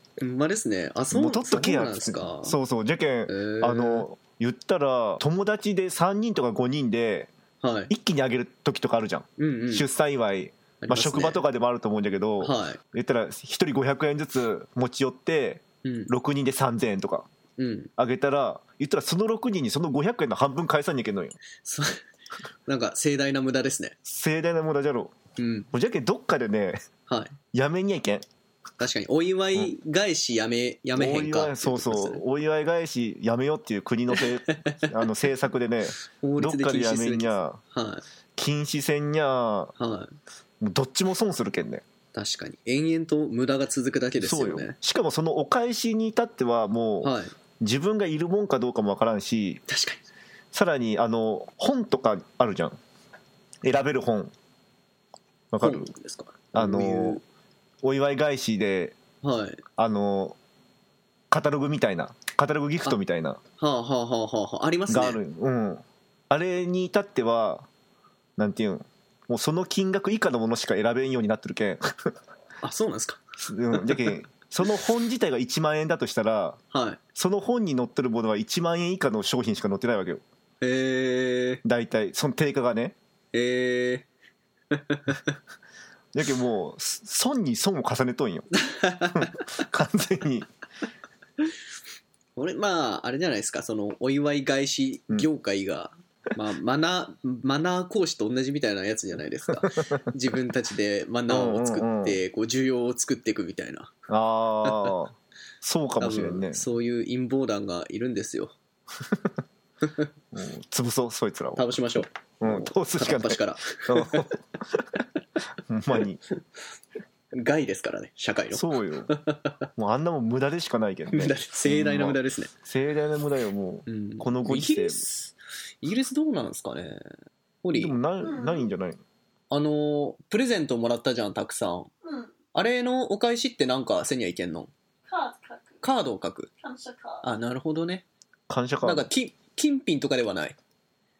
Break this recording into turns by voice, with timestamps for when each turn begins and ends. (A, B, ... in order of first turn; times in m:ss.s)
0:00.2-0:02.6 A
0:01.1-0:07.3 B
0:03.3-0:04.1 A
0:07.6-0:07.9 A
0:07.9-0:17.3 B
0:09.4-0:09.8 A
0:10.8-0:11.4 A
0:12.4-0:12.8 A
0:15.8-0:16.1 A
0:17.6-0:17.9 A
0:18.0-0:21.4 B
0:21.6-0:22.0 A
0:22.6-0:23.9 A
0:24.0-0:25.1 B
0:25.4-0:25.7 A
0:25.7-0:26.8 B
0:27.1-0:27.4 A
0:27.5-0:28.2 B
0:28.8-0:32.2 A
0:31.0-0:37.6 B
0:34.5-0:34.8 A
0:36.2-0:38.0 A
0:38.4-0:39.7 B
0:39.8-0:40.2 A
0:40.6-0:41.8 B
0:42.1-0:44.7 A
0:44.2-0:49.6 B
0:47.0-0:47.3 A
0:49.7-0:50.0 A
0:50.5-0:52.8 B
0:53.6-0:54.3 B
0:55.5-0:55.9 B
0:55.6-0:57.2 A
0:56.5-0:57.2 B
0:57.8-0:59.0 B
0:59.2-0:59.6 A
0:59.8-1:00.4 B
1:01.3-1:03.4 B
1:03.6-1:05.2 A
1:04.9-1:07.7 B
1:08.4-1:12.1 B
1:12.6-1:14.1 A
1:13.4-1:16.6 B
1:16.7-1:17.0 A
1:17.1-1:20.2 B
1:20.6-1:21.6 A
1:21.6-1:23.0 B
1:23.3-1:24.1 A
1:24.7-1:25.3 A
1:26.1-1:28.5 B
1:28.6-1:29.4 A
1:29.1-1:30.5 B
1:32.4-1:43.9 A
1:39.5-1:40.1 B
1:41.3-1:42.2 B
1:44.1-1:46.6 B
1:44.6-1:44.9 A
1:46.0-1:48.5 A
1:50.3-1:51.8 B
1:51.6-1:54.3 A
1:52.4-1:55.0 B
1:55.7-1:56.2 B
1:57.3-1:59.6 A
1:58.5-1:59.1 B
1:59.8-2:05.0 B
2:01.1-2:02.5 A
2:03.9-2:07.0 A
2:07.6-2:07.9 A
2:07.7-2:09.0 B
2:08.2-2:08.6 C
2:09.5-2:11.9 A
2:12.0-2:12.3 C
2:12.5-2:14.7 A
2:15.1-2:15.8 C
2:15.8-2:16.5 A
2:16.6-2:17.2 C
2:17.2-2:18.0 A
2:18.5-2:19.1 B
2:18.8-2:20.6 A